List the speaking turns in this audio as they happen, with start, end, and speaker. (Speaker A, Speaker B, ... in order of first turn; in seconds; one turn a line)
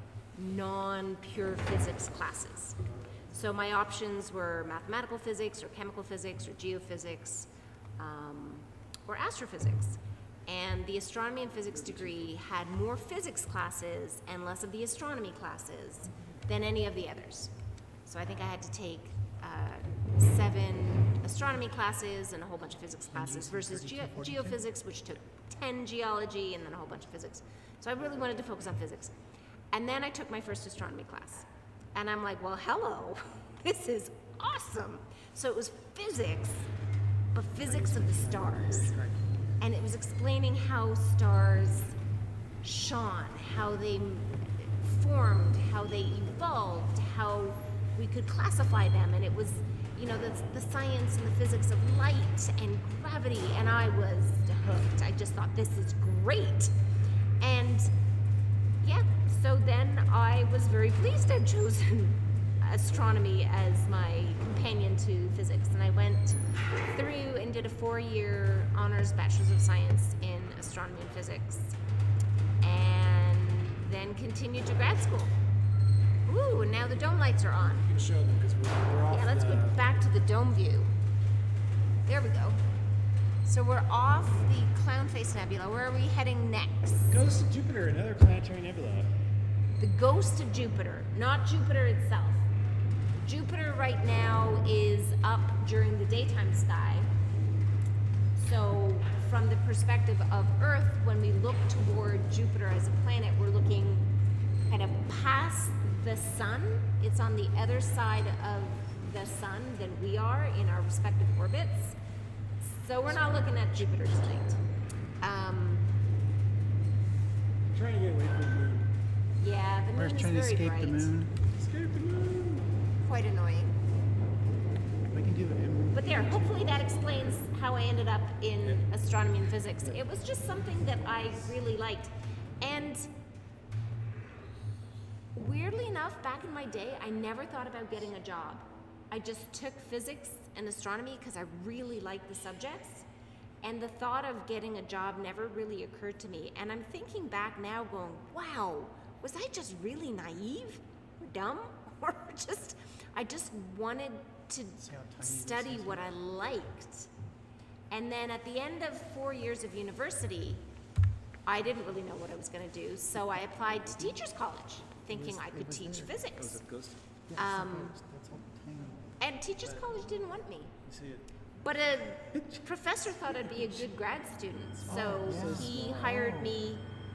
Speaker A: 0.3-17.5
Speaker B: 11.8-12.3
Speaker A: 18.1-29.2
Speaker C: 23.1-24.6
Speaker A: 29.7-36.7
Speaker A: 37.3-39.0
Speaker C: 37.6-39.6
Speaker A: 39.6-42.0
Speaker A: 42.6-56.7
Speaker A: 57.4-57.9
Speaker A: 58.8-71.8
Speaker A: 72.6-75.4
Speaker A: 76.2-77.9
Speaker B: 77.6-80.1
Speaker A: 79.1-81.0
Speaker A: 82.0-82.6
Speaker A: 83.4-87.2
Speaker B: 87.1-89.2
Speaker A: 89.8-92.5
Speaker A: 93.2-97.1
Speaker A: 98.3-104.1
Speaker A: 104.6-112.0
Speaker A: 112.6-114.6
Speaker B: 113.1-114.2
Speaker A: 115.2-115.9
Speaker B: 117.7-119.0
Speaker A: 119.4-121.1
Speaker C: 119.9-121.5
Speaker B: 121.5-122.8
Speaker A: 123.0-123.8
Speaker C: 125.1-126.9
Speaker A: 125.9-133.1
Speaker B: 130.1-130.7
Speaker A: 135.3-143.1
Speaker A: 143.6-157.1
Speaker C: 154.8-156.1
Speaker A: 157.9-160.6
Speaker A: 161.4-166.6
Speaker C: 165.1-166.2
Speaker B: 166.3-167.0
Speaker C: 167.3-170.1
Speaker A: 167.3-167.9
Speaker A: 169.2-170.8
Speaker C: 170.8-171.3
Speaker A: 171.6-176.8
Speaker C: 174.9-176.6
Speaker B: 175.2-176.3